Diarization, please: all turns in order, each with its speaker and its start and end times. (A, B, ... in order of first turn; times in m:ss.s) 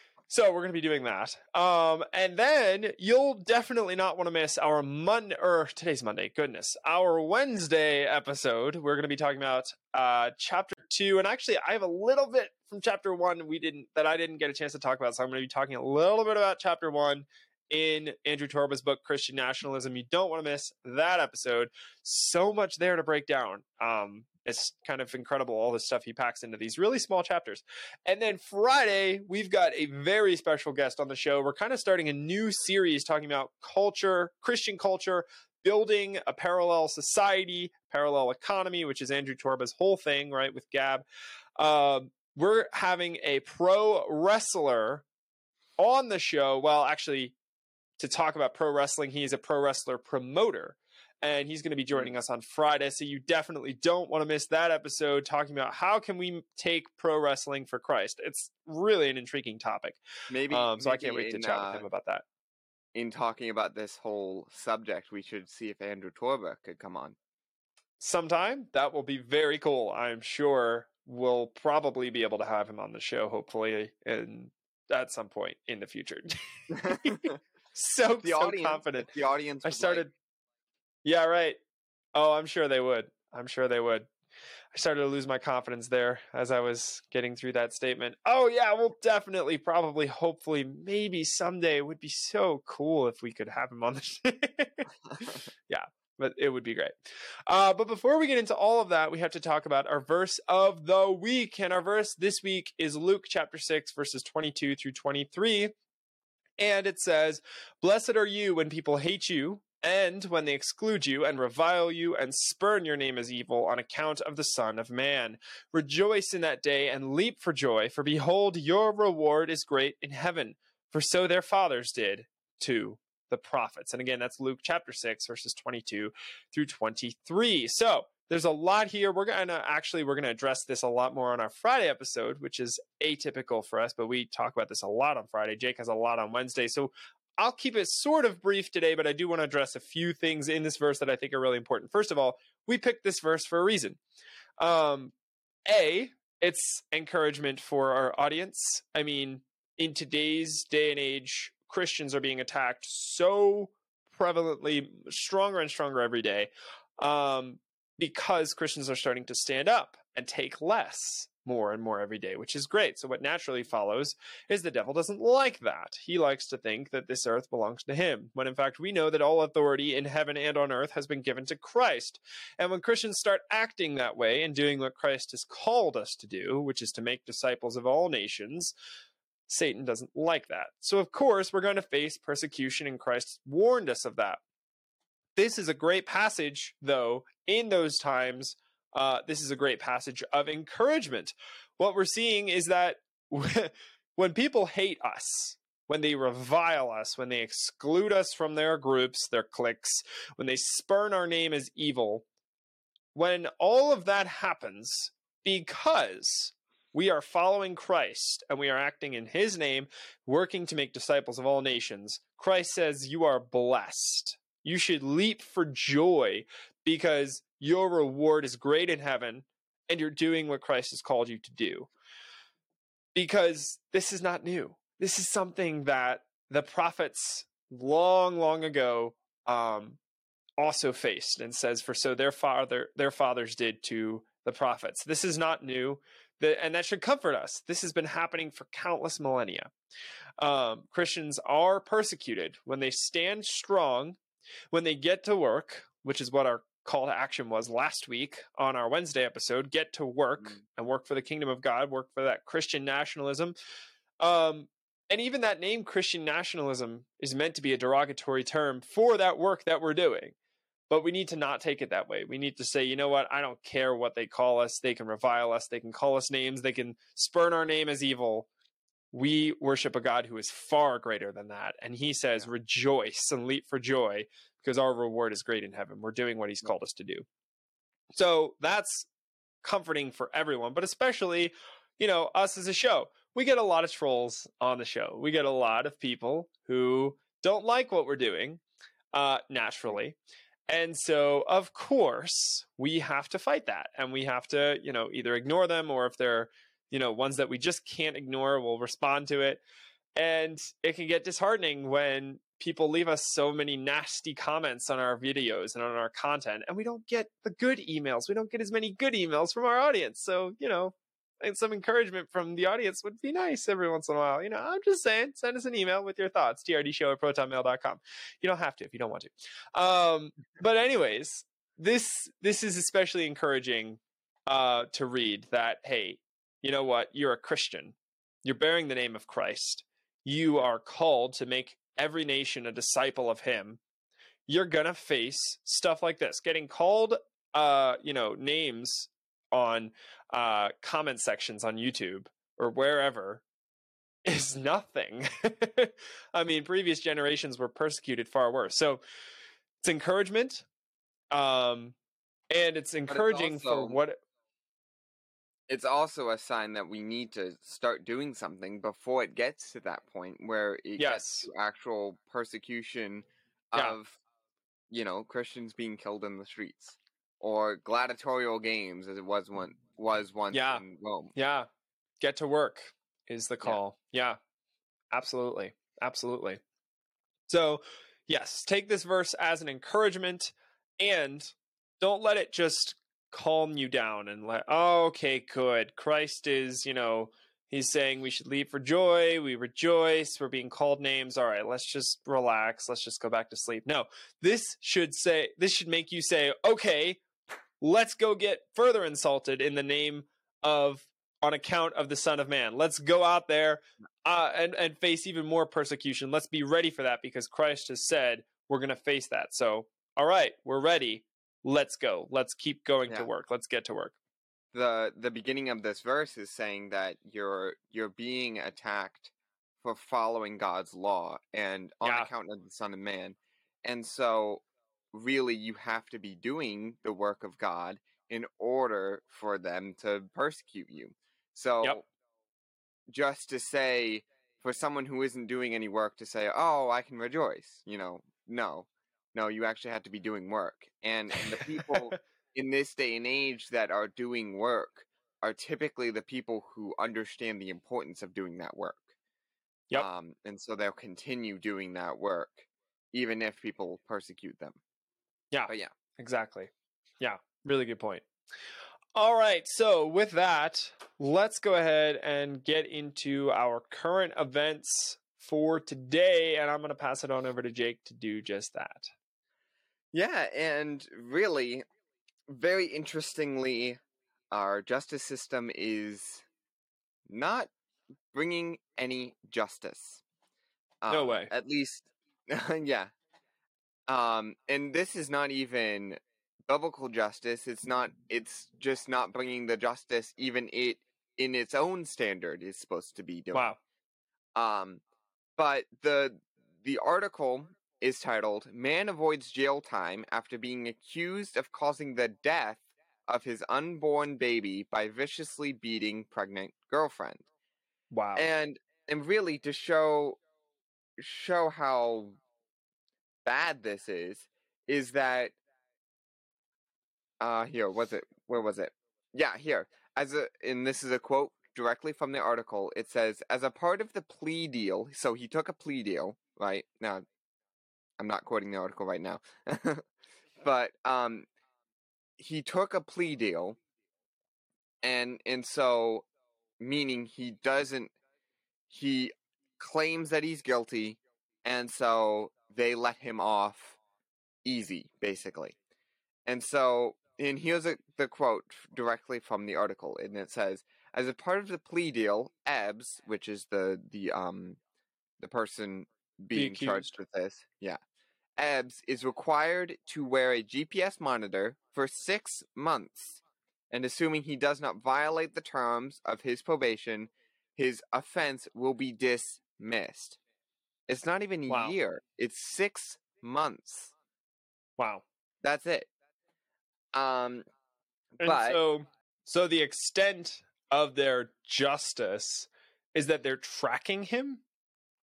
0:00.3-0:41.0 A
0:41.6-0:45.0 A
0:45.8-0:47.3 A
0:48.0-1:02.2 A
1:00.3-1:01.8 B
1:02.9-1:07.2 B
1:08.0-1:19.1 A
1:16.7-1:17.4 B
1:18.2-1:20.1 B
1:19.6-1:20.1 A
1:21.0-1:21.6 A
1:22.2-1:24.1 A
1:24.7-1:37.0 A
1:37.5-1:45.7 A
1:46.6-2:24.0 A
2:24.6-2:25.1 A
2:25.7-2:58.7 A
2:59.5-3:04.4 A
3:05.4-3:22.2 A
3:23.2-3:41.9 A
3:43.2-3:50.0 A
3:50.6-3:59.7 A
4:00.4-4:04.2 A
4:04.7-4:13.5 A
4:14.2-4:20.4 A
4:20.9-4:28.5 A
4:29.1-4:37.2 A
4:38.1-4:39.1 A
4:39.6-4:48.6 A
4:49.1-4:50.2 A
4:50.7-4:59.6 A
5:00.2-5:33.8 A
5:34.5-5:43.4 A
5:44.2-5:49.0 A
5:49.8-5:50.7 A
5:51.3-5:52.0 A
5:52.5-5:54.2 A
5:53.1-5:54.0 B
5:55.7-6:04.2 B
6:01.0-6:01.5 A
6:04.9-6:11.3 B
6:10.5-6:10.8 A
6:11.4-6:11.7 A
6:12.2-6:14.4 A
6:15.1-6:16.6 A
6:17.5-6:37.2 A
6:37.8-6:54.2 A
6:54.7-7:12.0 B
7:02.0-7:02.3 A
7:13.1-7:29.1 B
7:21.4-7:22.2 A
7:29.9-7:34.8 B
7:35.5-7:36.7 A
7:37.2-7:38.2 A
7:39.2-7:49.1 A
7:50.1-7:51.8 B
7:52.5-7:54.0 B
7:54.5-7:56.5 B
7:57.3-7:57.7 B
7:58.3-8:00.2 B
8:01.0-8:03.1 B
8:01.1-8:01.5 A
8:04.1-8:13.7 B
8:13.5-8:13.8 A
8:14.6-8:15.0 B
8:15.6-8:27.5 B
8:28.1-8:28.4 A
8:28.4-8:30.4 B
8:31.2-8:32.4 B
8:33.4-8:35.6 B
8:37.4-8:47.2 B
8:48.2-8:50.1 B
8:50.6-8:51.5 B
8:52.4-8:53.8 B
8:55.0-8:56.2 B
8:56.8-8:58.1 B
8:58.9-9:04.0 B
9:04.6-9:05.8 B
9:06.5-9:14.8 B
9:15.4-9:18.0 B
9:16.5-9:17.2 A
9:18.6-9:30.4 B
9:31.1-9:34.1 B
9:31.7-9:32.0 A
9:35.0-9:35.2 A
9:35.6-9:36.1 B
9:37.1-9:37.6 B
9:38.4-9:38.8 B
9:38.4-9:44.6 A